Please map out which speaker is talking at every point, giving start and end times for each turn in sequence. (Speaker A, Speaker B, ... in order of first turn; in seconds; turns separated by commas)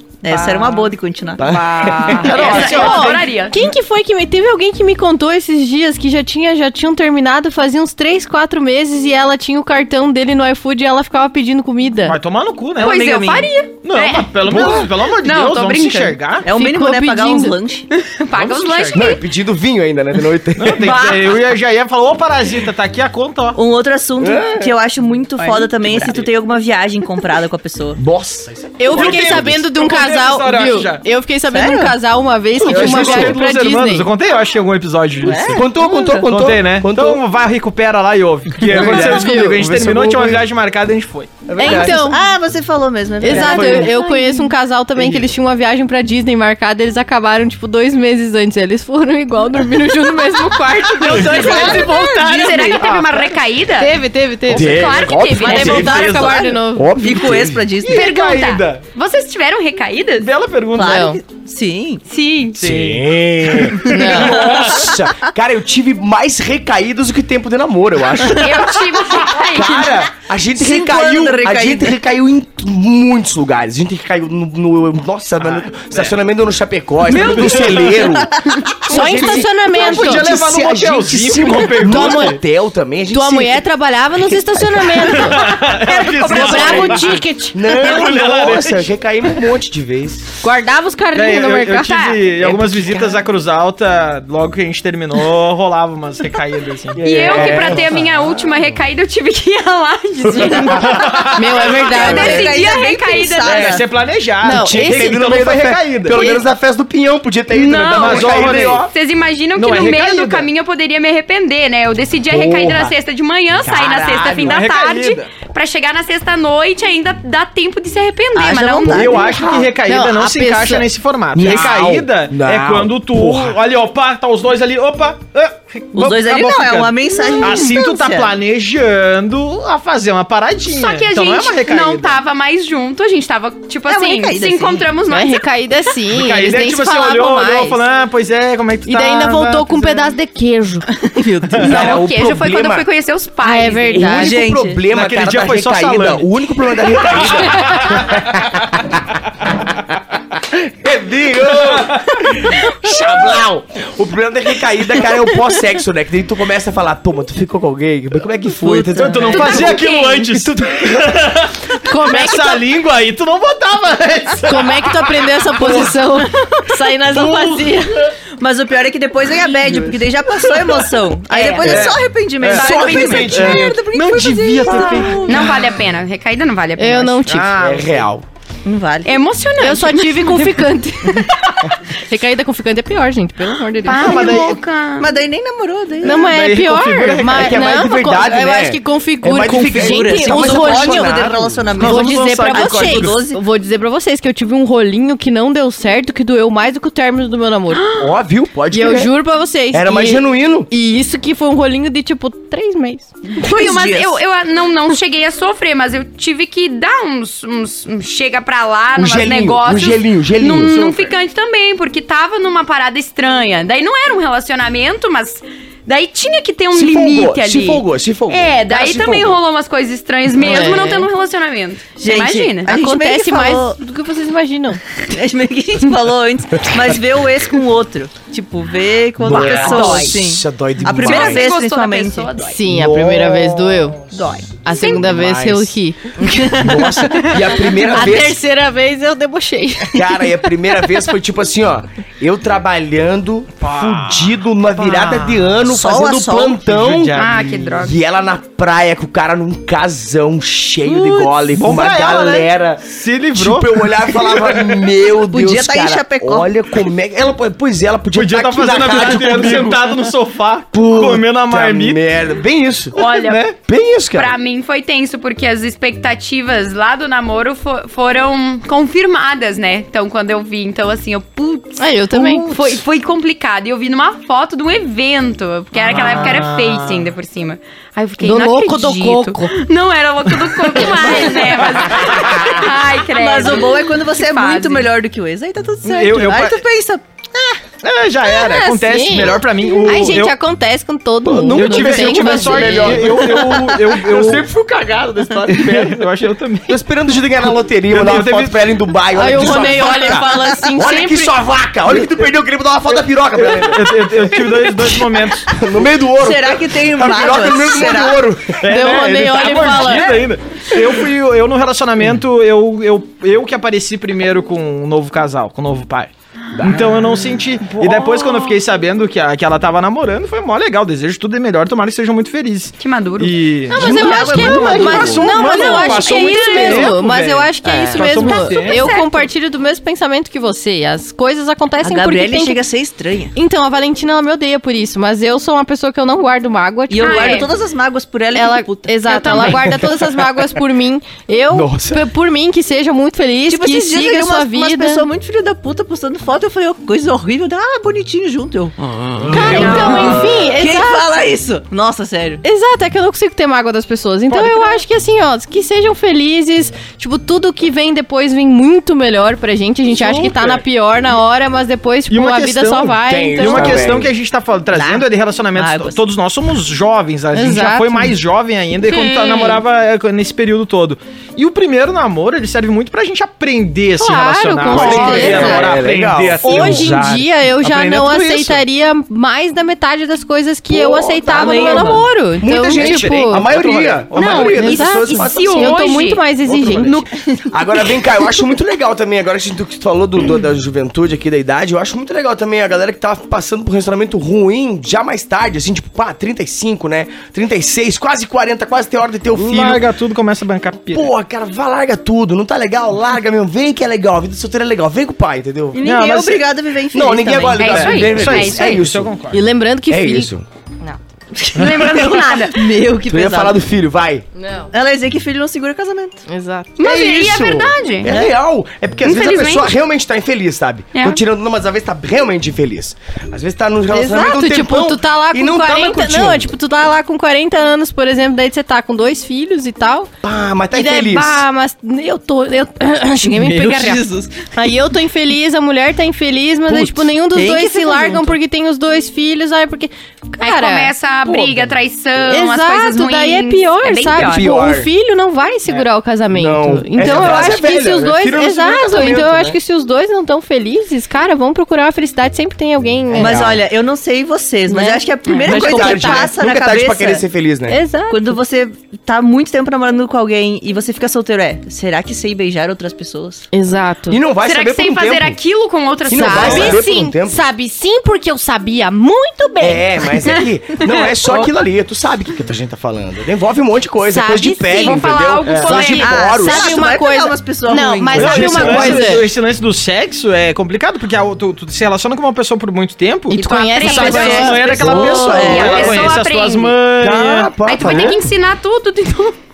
Speaker A: 0.2-2.8, Speaker B: 1.4-2.9, Speaker C: 1.5-12.2, Speaker D: 1.7-3.6, Speaker E: 2.1-3.2, Speaker E: 12.1-13.2, Speaker A: 12.8-13.5, Speaker D: 12.8-16.2, Speaker E: 13.8-16.5, Speaker B: 14.5-14.9, Speaker A: 16.4-17.9, Speaker C: 16.5-17.6, Speaker D: 17.9-19.2, Speaker E: 18.3-19.1, Speaker B: 18.9-21.1, Speaker E: 20.6-23.6, Speaker D: 20.8-21.1, Speaker A: 23.5-28.0, Speaker B: 24.2-24.7, Speaker B: 25.8-26.3, Speaker B: 28.0-29.6, Speaker C: 28.8-34.1, Speaker E: 28.9-31.0, Speaker A: 31.5-31.9, Speaker E: 32.6-35.7, Speaker B: 32.6-33.4, Speaker A: 35.2-36.3, Speaker B: 35.5-37.2, Speaker E: 36.2-41.5, Speaker B: 38.6-40.4, Speaker C: 38.7-39.6, Speaker B: 41.4-42.0, Speaker C: 41.6-42.2, Speaker A: 41.6-44.5, Speaker C: 43.2-51.7, Speaker E: 43.3-43.9, Speaker B: 45.0-45.3, Speaker A: 50.7-52.8, Speaker E: 50.9-53.3, Speaker D: 51.2-54.0, Speaker C: 53.8-56.9, Speaker B: 54.5-57.6, Speaker D: 54.5-56.0, Speaker E: 55.5-56.4, Speaker A: 55.6-58.1, Speaker E: 57.8-58.8, Speaker D: 57.9-60.3, Speaker E: 60.2-61.0, Speaker A: 60.7-62.0, Speaker C: 60.8-61.2, Speaker D: 62.1-62.6, Speaker E: 62.5-64.9, Speaker B: 62.6-83.7, Speaker C: 63.8-64.5, Speaker A: 63.9-64.9, Speaker D: 68.2-69.9, Speaker E: 69.6-70.0, Speaker A: 70.5-72.0, Speaker E: 75.4-76.1, Speaker D: 77.1-78.0, Speaker E: 77.1-78.1, Speaker A: 77.2-78.6, Speaker C: 78.9-80.4, Speaker E: 79.7-82.4, Speaker C: 81.8-82.4, Speaker C: 83.1-85.6, Speaker B: 84.2-85.2, Speaker E: 85.0-88.9, Speaker A: 85.8-87.0, Speaker C: 86.2-88.0, Speaker B: 86.3-90.3, Speaker C: 90.4-92.2, Speaker E: 91.1-98.0, Speaker B: 92.4-93.2, Speaker D: 97.0-101.2, Speaker B: 97.0-98.0, Speaker E: 100.4-101.7, Speaker C: 101.3-102.6, Speaker A: 101.6-103.8, Speaker D: 101.7-103.8, Speaker E: 103.5-106.2, Speaker C: 104.4-105.3, Speaker B: 104.4-108.9, Speaker C: 106.1-106.4, Speaker D: 107.5-119.2, Speaker E: 107.9-108.8, Speaker E: 109.5-110.5, Speaker B: 112.3-112.9, Speaker B: 113.6-114.6, Speaker E: 114.4-115.3, Speaker A: 118.3-119.6, Speaker E: 118.8-132.2, Speaker C: 119.8-120.9, Speaker B: 121.3-123.6, Speaker A: 125.9-128.3, Speaker D: 130.7-135.5, Speaker A: 133.9-134.9, Speaker C: 135.1-137.8, Speaker E: 136.1-140.1, Speaker C: 138.8-140.9, Speaker A: 141.1-141.8, Speaker E: 141.6-141.8, Speaker B: 141.6-142.8, Speaker D: 141.6-144.1, Speaker C: 143.4-144.4, Speaker B: 143.9-149.0, Speaker A: 144.0-144.8, Speaker E: 144.9-146.3, Speaker E: 146.9-148.4, Speaker B: 150.3-160.9, Speaker E: 151.5-152.7, Speaker C: 158.7-159.5, Speaker E: 158.8-165.9, Speaker D: 159.4-160.2, Speaker C: 161.8-162.6, Speaker C: 164.4-168.0, Speaker A: 166.7-167.8, Speaker E: 167.2-167.5, Speaker A: 168.4-175.5, Speaker E: 170.5-170.8, Speaker D: 171.3-171.9, Speaker B: 171.6-173.8, Speaker E: 171.6-175.6, Speaker D: 175.2-177.2, Speaker C: 176.8-177.6, Speaker E: 177.2-178.0, Speaker B: 177.5-178.2, Speaker A: 178.6-179.2, Speaker D: 179.0-180.7, Speaker C: 179.6-184.5, Speaker D: 183.8-185.1, Speaker E: 183.9-184.6, Speaker A: 185.0-186.4, Speaker C: 186.0-191.2, Speaker E: 186.1-187.7, Speaker B: 187.2-191.6, Speaker A: 189.7-193.4, Speaker E: 191.7-193.2, Speaker C: 191.8-198.0, Speaker D: 197.7-198.1, Speaker B: 197.9-199.1, Speaker C: 198.7-203.1, Speaker B: 199.7-200.7, Speaker A: 203.3-204.2, Speaker D: 203.4-222.7, Speaker B: 208.9-211.1, Speaker B: 216.7-219.4, Speaker C: 220.4-221.1, Speaker A: 222.0-223.8, Speaker C: 222.7-224.8, Speaker A: 225.1-232.3, Speaker B: 229.2-231.5, Speaker E: 229.2-229.8, Speaker D: 229.4-230.2, Speaker D: 231.0-232.6, Speaker C: 232.4-234.0, Speaker B: 232.7-234.0, Speaker A: 234.1-234.5, Speaker C: 234.6-240.9, Speaker B: 234.6-235.8, Speaker D: 234.7-235.1, Speaker A: 236.2-236.9, Speaker B: 236.4-238.4, Speaker B: 239.9-247.2, Speaker E: 243.6-245.6, Speaker A: 245.6-246.6, Speaker E: 246.6-247.8, Speaker D: 247.1-247.9, Speaker B: 247.8-259.9, Speaker E: 251.5-254.7, Speaker A: 255.3-256.5, Speaker E: 258.1-262.0, Speaker B: 260.7-264.3, Speaker D: 262.9-263.5, Speaker D: 264.1-284.9, Speaker C: 271.8-272.8, Speaker E: 275.8-277.1, Speaker C: 278.2-279.6, Speaker C: 280.8-281.6, Speaker E: 281.6-282.6, Speaker A: 281.9-287.6, Speaker E: 285.8-286.6, Speaker E: 287.8-290.4, Speaker C: 288.2-293.4, Speaker B: 291.2-296.0, Speaker E: 291.5-294.5, Speaker E: 295.5-296.8, Speaker B: 296.7-304.3, Speaker E: 297.9-298.6, Speaker C: 299.1-301.3, Speaker A: 300.1-300.7, Speaker E: 303.4-305.5, Speaker B: 305.5-308.6, Speaker A: 306.2-308.2, Speaker E: 308.6-328.9, Speaker C: 308.7-310.2, Speaker B: 316.5-317.3, Speaker D: 322.8-323.4, Speaker C: 323.7-332.6, Speaker A: 323.7-325.4, Speaker B: 323.8-325.2, Speaker D: 325.5-327.0, Speaker D: 328.0-329.3, Speaker A: 331.8-333.3, Speaker C: 333.3-337.5, Speaker A: 336.9-339.7, Speaker D: 337.0-337.5, Speaker C: 338.3-345.1, Speaker D: 339.1-339.5, Speaker B: 341.5-342.1, Speaker A: 343.5-348.7, Speaker E: 349.2-350.1, Speaker B: 349.2-350.1, Speaker C: 349.3-351.1, Speaker A: 349.4-352.4, Speaker D: 349.6-350.0, Speaker C: 352.4-364.0, Speaker E: 354.3-354.8, Speaker E: 359.9-360.6, Speaker E: 362.1-378.6, Speaker B: 363.0-364.1, Speaker A: 364.7-366.0, Speaker C: 367.3-368.1, Speaker C: 368.9-369.6, Speaker C: 374.0-375.7, Speaker B: 374.7-376.9, Speaker C: 376.4-383.5, Speaker B: 380.7-399.8, Speaker A: 381.3-382.1, Speaker E: 382.7-384.6, Speaker D: 384.1-386.3, Speaker C: 384.3-387.1, Speaker D: 386.8-387.4, Speaker E: 399.3-401.1, Speaker B: 400.9-405.9, Speaker A: 405.7-407.9, Speaker E: 405.8-406.4, Speaker B: 406.9-409.1, Speaker D: 407.6-408.9, Speaker E: 407.6-409.4, Speaker C: 409.3-410.3, Speaker B: 409.9-410.4, Speaker A: 411.3-413.6, Speaker D: 411.5-412.6, Speaker B: 413.1-414.2, Speaker C: 414.4-414.7, Speaker A: 414.7-416.2, Speaker C: 416.3-416.7, Speaker D: 416.8-418.1, Speaker B: 416.8-426.5, Speaker A: 418.1-418.3, Speaker D: 419.0-419.7, Speaker D: 420.9-421.2, Speaker C: 423.9-430.1, Speaker B: 430.2-431.4, Speaker C: 430.7-440.9, Speaker E: 433.2-434.1, Speaker A: 437.2-438.4, Speaker D: 440.4-444.4, Speaker C: 442.2-453.4, Speaker B: 444.1-444.9, Speaker B: 446.3-449.6, Speaker B: 453.1-453.6, Speaker A: 453.1-457.2, Speaker C: 454.7-456.3, Speaker B: 455.4-457.8, Speaker C: 457.7-458.3, Speaker A: 458.1-463.5, Speaker C: 463.5-464.2, Speaker B: 464.1-465.4, Speaker D: 464.4-466.9, Speaker B: 466.1-467.4, Speaker C: 466.1-469.8, Speaker B: 469.6-476.8, Speaker D: 470.3-470.9, Speaker C: 474.0-475.0, Speaker D: 474.8-476.1, Speaker C: 475.6-479.3, Speaker A: 476.0-479.1, Speaker B: 478.1-479.2, Speaker E: 478.1-488.1, Speaker C: 483.3-484.8, Speaker D: 483.3-486.8, Speaker A: 483.9-486.0, Speaker B: 484.6-486.2, Speaker B: 487.0-488.2, Speaker D: 487.6-489.4